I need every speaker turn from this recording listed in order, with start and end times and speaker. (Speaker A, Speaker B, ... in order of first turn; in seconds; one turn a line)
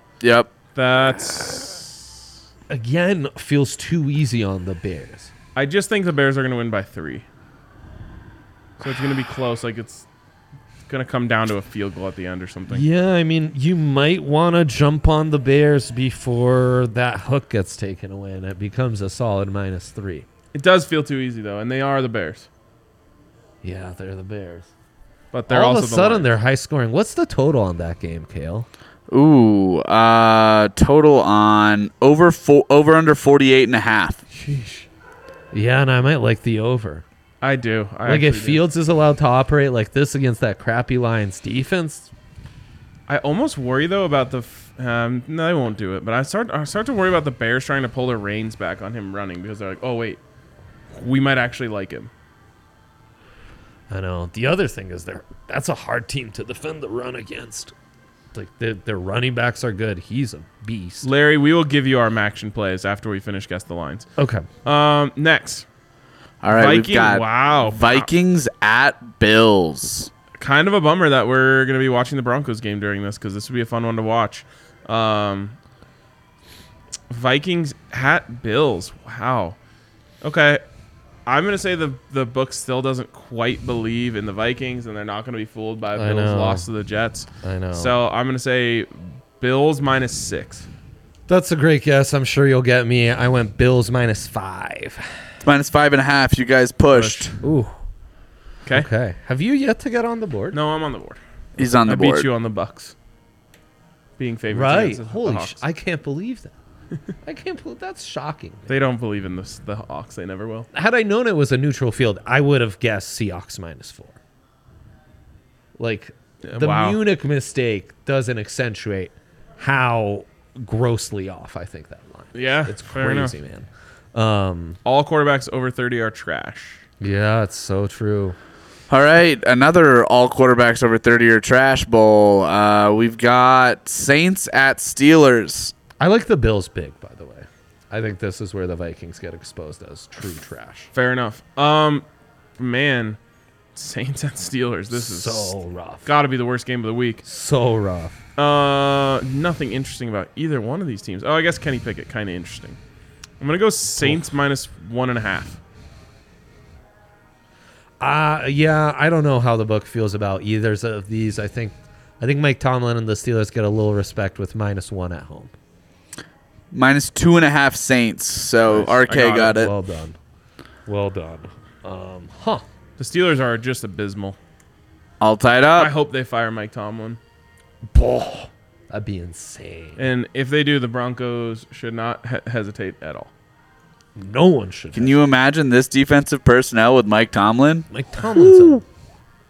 Speaker A: 0.2-0.5
Speaker B: 0.8-1.9
Speaker C: 2.7-5.3
Speaker B: 5.5-7.2
Speaker B: 8.8-10.1
Speaker B: 10.9-12.8
Speaker C: 12.7-20.2
Speaker B: 20.5-22.5
Speaker C: 23.6-24.7
Speaker B: 25.3-26.3
Speaker C: 25.5-28.7
Speaker A: 29.1-34.2
Speaker B: 34.3-34.9
Speaker C: 35.5-37.0
Speaker B: 37.4-38.6
Speaker C: 38.0-42.1
Speaker B: 43.1-50.2
Speaker B: 50.9-52.1
Speaker C: 53.9-57.7
Speaker C: 58.3-61.1
Speaker B: 61.0-64.1
Speaker C: 64.2-64.5
Speaker B: 64.6-65.7
Speaker A: 66.4-70.1
Speaker B: 66.5-68.1
Speaker B: 70.4-75.6
Speaker B: 77.1-79.6
Speaker B: 80.2-80.6
Speaker B: 81.2-90.7
Speaker C: 86.0-86.7
Speaker C: 87.4-88.0
Speaker C: 91.3-95.3
Speaker A: 95.4-97.4
Speaker B: 96.9-97.3
Speaker C: 97.4-97.8
Speaker C: 98.7-100.6
Speaker B: 100.5-101.2
Speaker A: 101.6-102.3
Speaker B: 101.8-103.0
Speaker B: 104.2-105.6
Speaker C: 104.5-106.5
Speaker C: 107.2-108.7
Speaker B: 108.7-110.7
Speaker C: 110.7-114.2
Speaker C: 115.8-124.8
Speaker B: 116.4-117.0
Speaker B: 122.3-123.3
Speaker B: 124.8-126.8
Speaker C: 127.0-128.4
Speaker A: 128.9-135.7
Speaker C: 136.0-140.9
Speaker B: 140.9-142.1
Speaker B: 142.6-143.2
Speaker B: 143.8-147.2
Speaker C: 144.9-146.1
Speaker C: 147.2-148.2
Speaker B: 148.4-152.8
Speaker B: 153.4-155.6
Speaker C: 154.0-154.3
Speaker C: 158.0-165.5
Speaker A: 166.7-169.7
Speaker B: 168.7-169.6
Speaker C: 168.7-170.2
Speaker C: 170.9-172.6
Speaker B: 173.0-174.4
Speaker A: 175.2-175.9
Speaker B: 175.8-177.2
Speaker C: 177.9-180.1
Speaker B: 180.0-183.3
Speaker C: 184.2-185.2
Speaker A: 184.9-187.9
Speaker C: 187.9-188.8